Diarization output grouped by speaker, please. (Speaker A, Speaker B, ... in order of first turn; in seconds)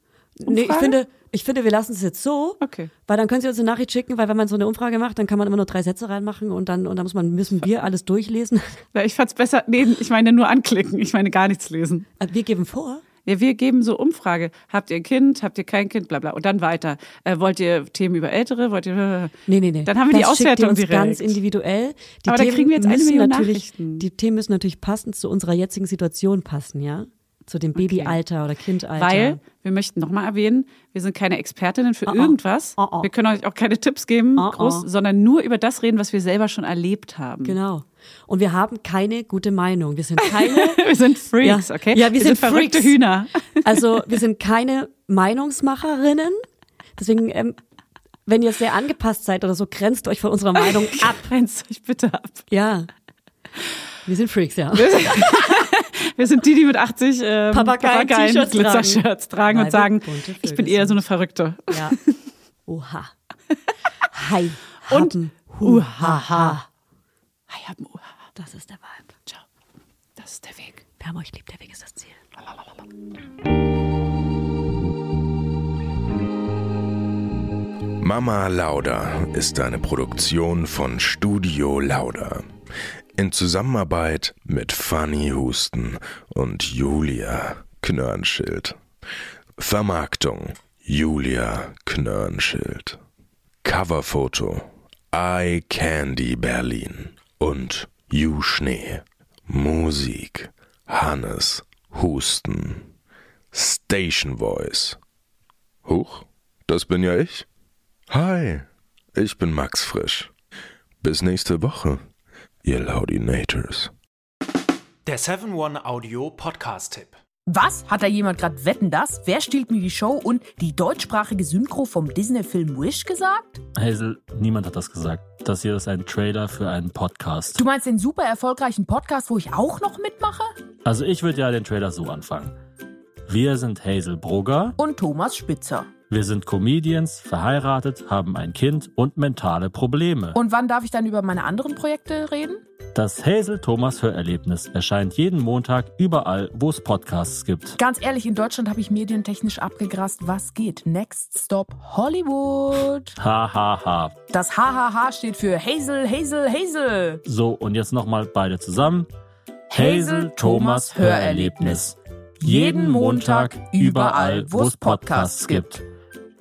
Speaker A: 0.4-8.8, 12.2-13.0, 19.5-29.4, 32.1-33.1, 34.4-34.9, 37.5-43.0, 43.6-46.4, 47.0-47.6, 48.3-51.3, 52.5-52.9, 54.0-55.4, 57.5-61.0, 61.7-62.0, 62.7-63.1, 64.1-66.7, 68.4-69.1, 71.0-72.2
Speaker B: 0.5-1.0, 2.6-2.9, 8.9-12.1, 13.3-21.4, 22.3-24.1, 27.8-28.2, 29.0-37.6, 40.2-44.0, 50.6-52.5, 54.7-62.2, 64.9-66.6, 67.5-68.1, 70.2-70.8
Speaker C: 78.0-82.5, 83.2-88.8, 89.6-93.0, 93.6-102.9, 103.5-105.0, 105.9-107.5, 108.1-110.3, 111.0-112.0, 112.6-113.9
Speaker D: 115.1-117.2
Speaker E: 117.5-123.6, 127.5-130.5, 134.8-135.9, 140.3-142.6, 147.8-153.2, 154.3-157.2, 159.7-161.8, 162.4-165.8
Speaker F: 123.8-127.6, 130.8-132.6, 133.3-134.8, 136.1-140.4, 142.9-147.8, 153.2-154.2, 157.3-159.1, 159.7-165.8